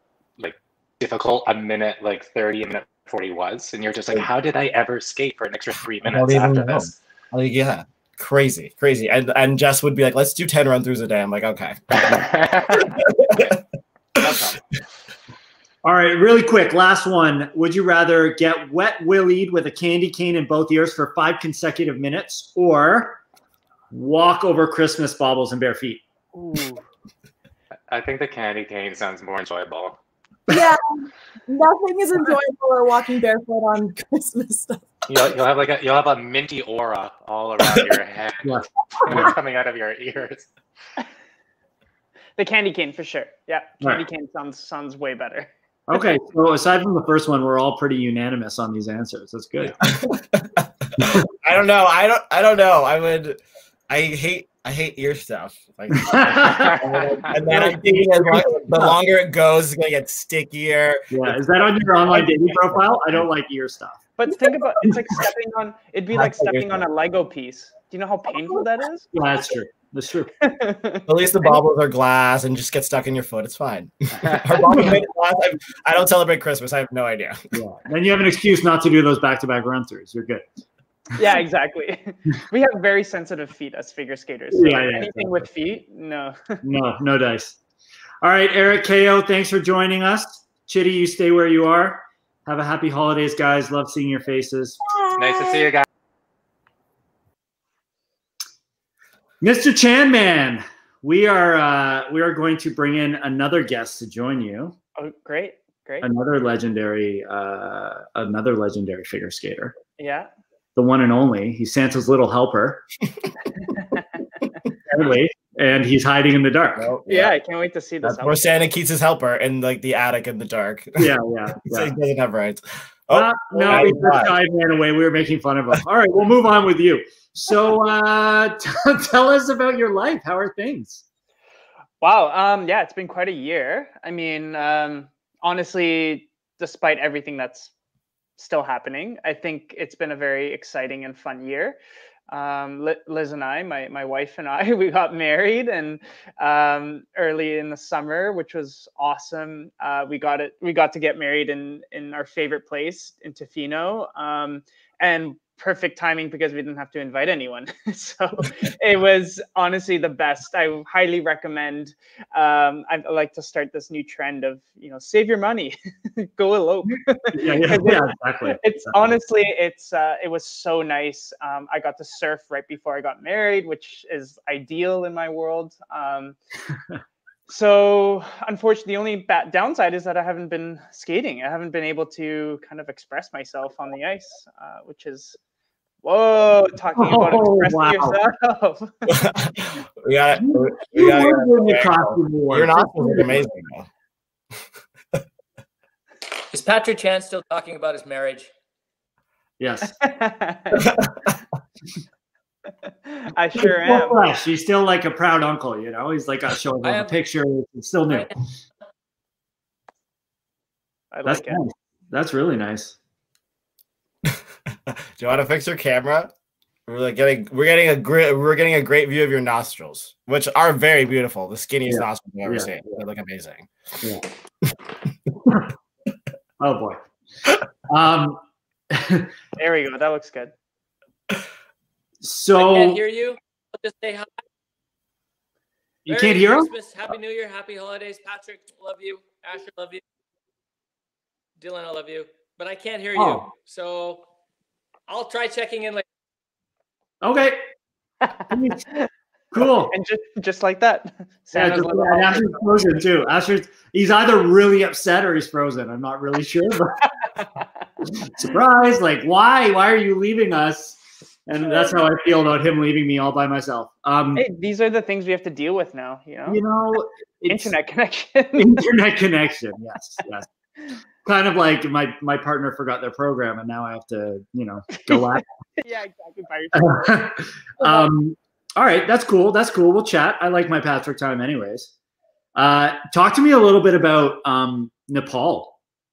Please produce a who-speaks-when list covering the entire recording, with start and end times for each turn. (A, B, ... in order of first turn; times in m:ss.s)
0:00.4-0:07.0 A
0:06.0-0:11.8 B
0:12.1-0:12.9 A
0:13.2-0:13.6 B
0:14.2-0:14.6 A
0:15.8-0:23.2 C
0:23.9-0:26.0 C
0:26.3-0:26.8 D
0:27.9-0:30.0 A
0:30.5-0:34.8 E
0:35.1-0:40.5 A
0:38.4-0:39.3 C
0:42.4-0:45.5 D
0:45.9-0:49.8 C
0:49.8-1:03.2 B
0:51.0-0:51.3 C
0:55.9-0:56.8 C
0:57.4-0:59.0 C
1:01.1-1:04.0 C
1:04.2-1:09.1 D
1:04.8-1:05.2 C
1:06.1-1:06.7 B
1:09.1-1:10.3 C
1:10.4-1:11.0 D
1:11.1-1:17.4 B
1:14.1-1:15.0 C
1:17.5-1:20.4 C
1:21.2-1:26.6 D
1:24.5-1:25.5 C
1:26.6-1:27.6 C
1:28.2-1:34.8 C
1:35.2-1:35.8 A
1:35.2-1:35.6 E
1:39.4-1:44.8 C
1:45.0-1:46.1 D
1:46.0-1:49.7 C
1:50.0-1:50.3 D
1:50.8-1:52.8 C
1:53.8-1:54.0 D
1:54.9-1:57.0 C
1:56.8-1:57.3 B
1:57.0-1:58.6 D
1:58.0-2:01.1 B
2:01.0-2:01.9 C
2:01.6-2:04.4 B
2:03.1-2:11.0 C
2:12.0-2:17.7 D
2:18.4-2:21.8 D
2:22.3-2:56.4 D
2:47.3-2:49.1 C
2:57.5-3:05.4 D
3:06.0-3:09.2 D
3:07.0-3:08.2 C
3:09.1-3:13.9 B
3:10.4-3:13.6 C
3:16.5-3:18.5 F
3:19.6-3:19.9 C
3:20.0-3:20.9 D
3:23.0-3:24.2 D
3:23.6-3:28.3 C
3:26.8-3:27.2 F
3:31.1-3:31.6 D
3:31.3-3:33.0 C
3:34.9-3:36.3 B
3:36.9-3:43.7 B
3:41.8-3:43.0 C
3:46.6-3:47.0 C
3:47.9-3:48.4 C
3:48.9-3:49.3 C
3:49.6-3:50.5 D
3:52.2-3:53.0 C
3:52.5-3:54.3 F
3:56.0-3:56.7 C
3:56.1-4:00.0 F
4:01.6-4:04.2 F
4:03.1-4:03.5 C
4:05.1-4:06.0 F
4:07.2-4:07.6 C
4:08.5-4:08.8 C
4:08.5-4:09.1 D
4:09.5-4:09.9 C
4:09.6-4:12.6 D
4:11.5-4:17.0 C
4:18.2-4:24.4 C
4:21.7-4:22.0 D
4:24.3-4:26.6 D
4:26.5-4:27.7 C
4:27.5-4:28.9 D
4:28.6-4:30.5 C
4:31.2-4:35.4 C
4:34.9-4:37.1 D
4:36.7-4:41.9 C
4:37.8-4:38.1 D
4:42.5-4:45.7 C